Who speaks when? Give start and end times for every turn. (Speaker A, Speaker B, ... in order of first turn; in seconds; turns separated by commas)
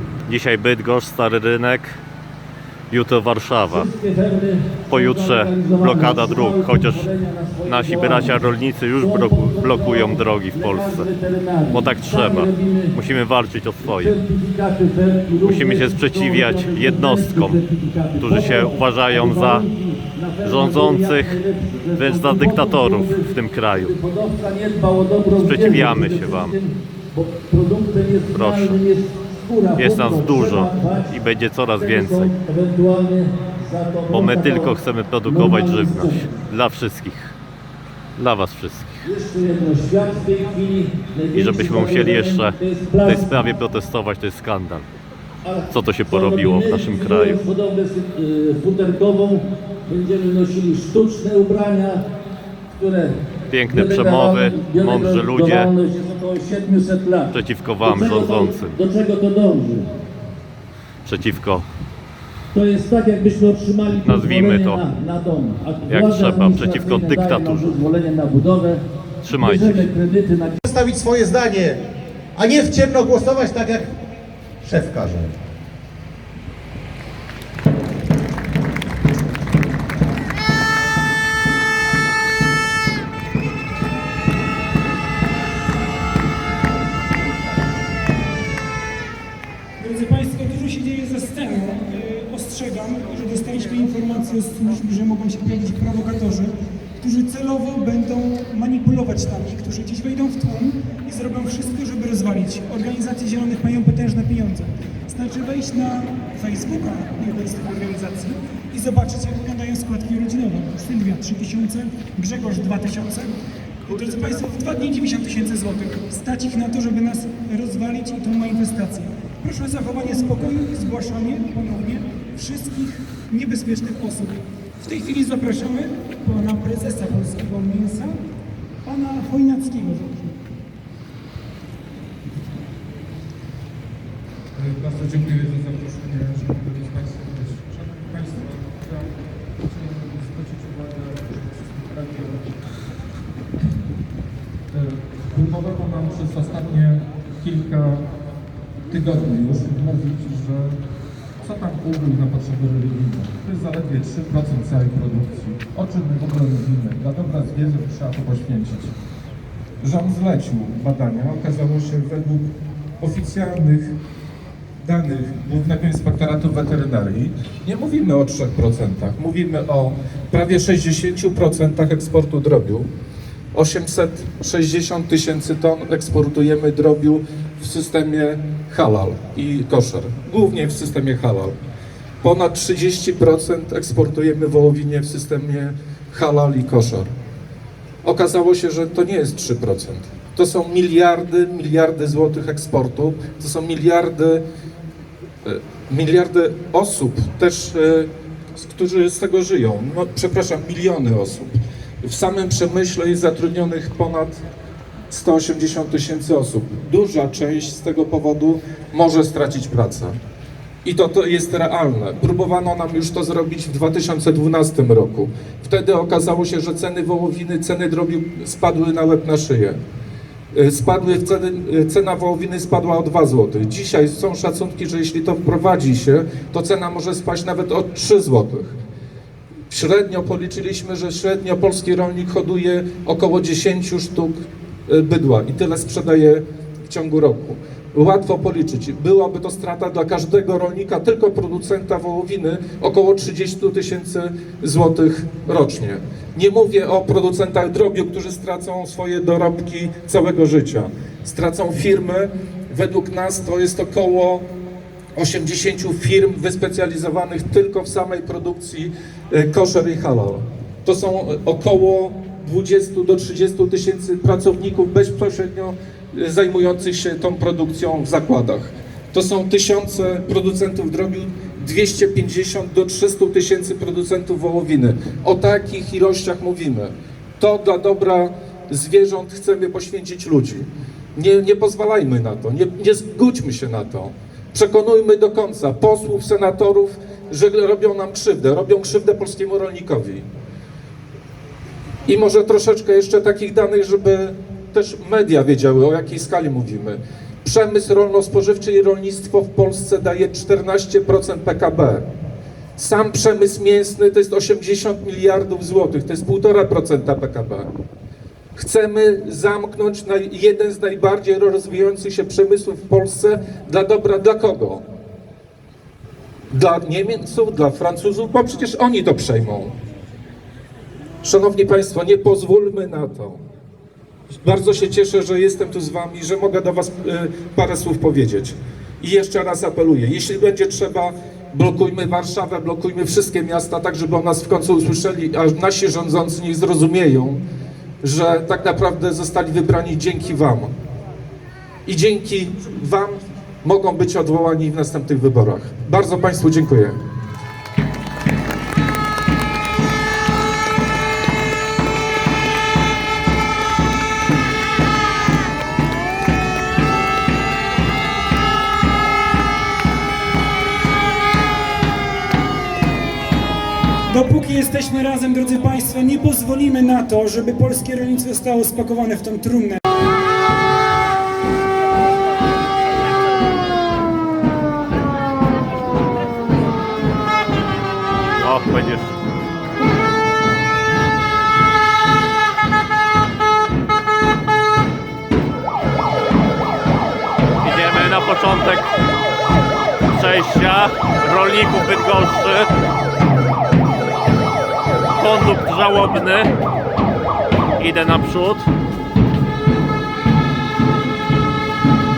Speaker A: 0.3-2.0, Speaker A: 2.9-3.9, Speaker B: 3.7-12.9, Speaker A: 4.9-7.0, Speaker A: 7.6-11.1, Speaker A: 11.7-14.1, Speaker B: 13.8-31.1, Speaker A: 15.4-17.6, Speaker A: 18.2-19.6, Speaker A: 20.4-21.4, Speaker A: 21.9-23.9, Speaker A: 25.4-26.5, Speaker A: 28.3-28.8, Speaker A: 29.8-32.3, Speaker B: 31.8-34.7, Speaker A: 34.1-37.3, Speaker B: 35.2-36.4, Speaker A: 38.2-39.0, Speaker B: 39.0-43.3, Speaker A: 41.3-44.8, Speaker B: 45.4-52.0, Speaker A: 45.7-47.4, Speaker B: 52.7-53.1, Speaker A: 53.5-55.7, Speaker B: 53.7-59.9, Speaker A: 57.3-58.8, Speaker A: 61.0-61.7, Speaker B: 62.5-70.6, Speaker A: 64.0-64.8, Speaker A: 65.9-67.8, Speaker A: 69.2-69.8, Speaker C: 70.6-74.0, Speaker C: 74.6-75.4, Speaker D: 89.8-113.3, Speaker D: 113.9-128.2, Speaker D: 128.8-130.4, Speaker E: 134.5-142.6, Speaker E: 144.7-148.1, Speaker E: 148.9-150.8, Speaker E: 151.4-158.9, Speaker E: 159.8-163.9, Speaker E: 164.8-172.9, Speaker E: 173.5-181.6, Speaker E: 182.2-187.1, Speaker E: 188.0-194.4, Speaker E: 195.4-204.4, Speaker E: 205.1-210.1, Speaker E: 210.8-219.8, Speaker E: 220.5-228.8, Speaker E: 229.7-254.5, Speaker E: 255.2-290.2, Speaker E: 292.1-302.1, Speaker E: 302.8-307.7, Speaker E: 308.6-314.8, Speaker E: 316.5-319.7, Speaker E: 321.2-323.4, Speaker E: 324.4-337.4, Speaker E: 338.0-340.7, Speaker E: 341.9-347.0, Speaker D: 364.1-369.8, Speaker A: 378.4-379.1, Speaker A: 387.6-388.9, Speaker A: 390.1-392.7, Speaker A: 395.2-396.5, Speaker A: 397.8-398.7